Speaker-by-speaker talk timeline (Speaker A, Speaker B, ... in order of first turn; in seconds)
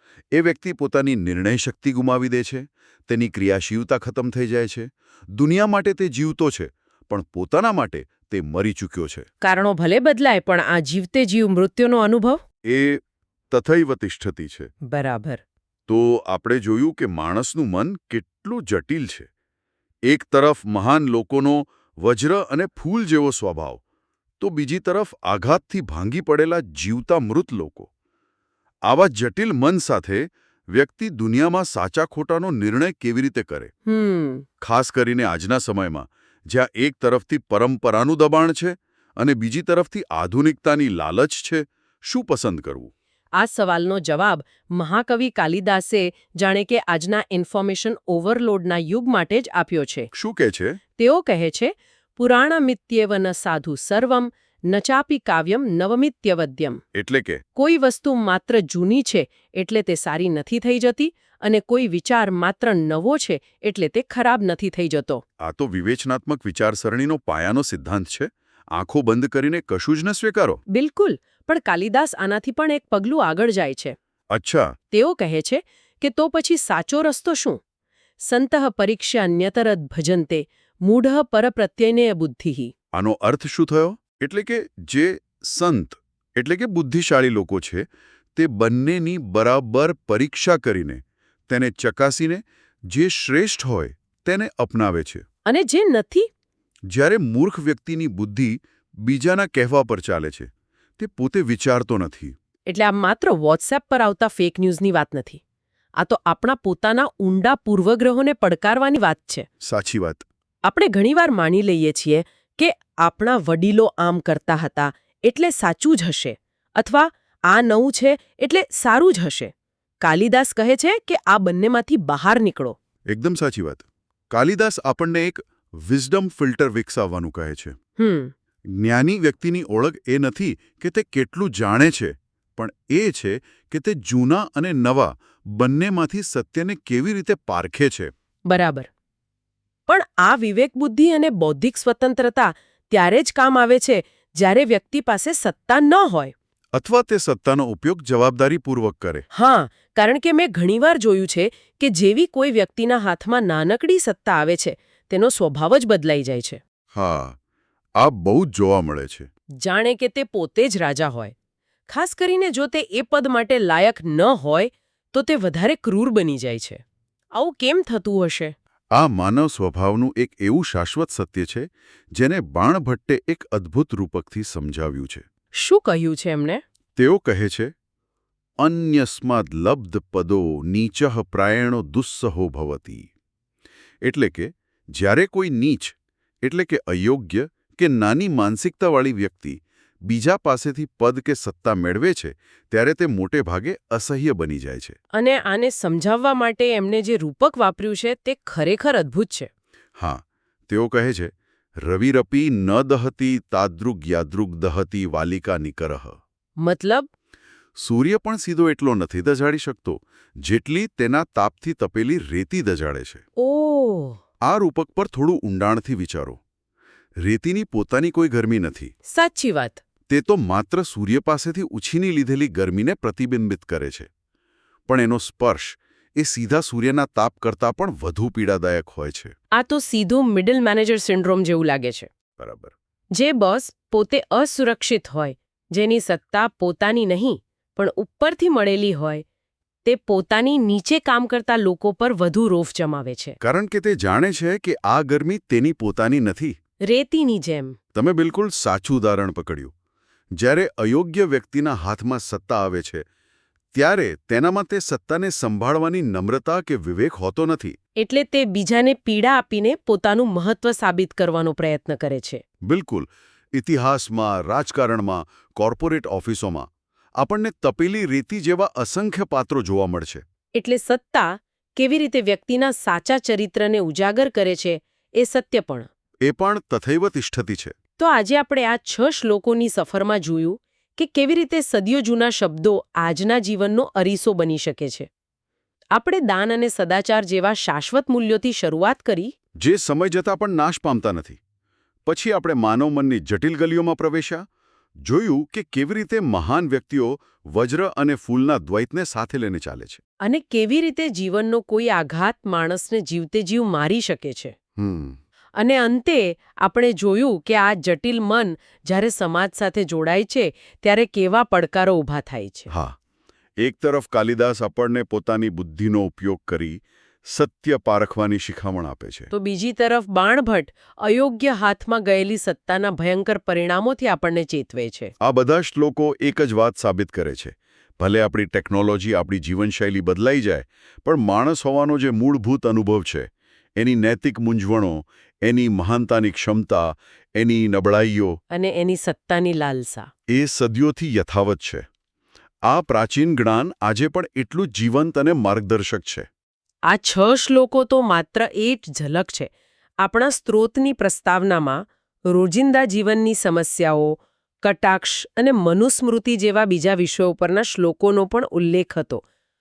Speaker A: 0.3-9.3, 12.7-14.7, 15.9-19.3, 20.1-23.8, 24.4-27.9, 28.9-33.7, 34.6-42.9, 50.1-50.8, 56.9-57.4, 65.4-70.6, 74.3-74.8, 82.9-87.8, 88.4-95.2, 96.9-102.3, 109.6-110.3, 123.1-127.8, 128.8-138.1, 146.7-149.2, 156.9-157.4, 158.0-159.3, 169.0-175.2, 177.0-177.7, 178.6-183.1, 184.0-195.0, 200.0-206.2, 207.8-213.2, 214.4-216.4, 217.2-218.9, 220.1-224.1, 224.9-229.3, 232.4-232.7, 243.4-246.6, 247.9-249.7, 250.4-253.0, 253.7-257.8, 262.7-270.2, 276.2-277.7, 289.6-291.4, 292.1-294.4, 295.0-300.0, 304.8-305.2, 312.7-312.9, 313.6-319.3, 325.2-338.4, 340.3-341.8, 342.7-346.3
Speaker B: 9.4-12.4, 14.9-15.4, 33.9-34.5, 43.4-50.1, 51.0-56.8, 57.6-65.2, 70.7-74.0, 74.9-77.6, 78.2-82.7, 95.5-96.3, 102.7-105.4, 106.0-109.5, 110.6-122.8, 128.0-128.3, 138.5-138.9, 139.9-146.3, 149.3-156.6, 159.6-161.3, 161.9-166.8, 167.3-168.5, 175.6-176.6, 195.2-199.5, 206.6-207.1, 213.4-214.2, 219.1-219.8, 229.6-232.1, 233.2-239.2, 239.8-243.4, 246.9-247.8, 258.0-262.4, 270.6-275.9, 278.0-285.1, 285.9-289.3, 300.2-304.5, 305.6-312.7, 319.3-325.1, 338.5-340.1, 346.9-349.5, 350.0-359.2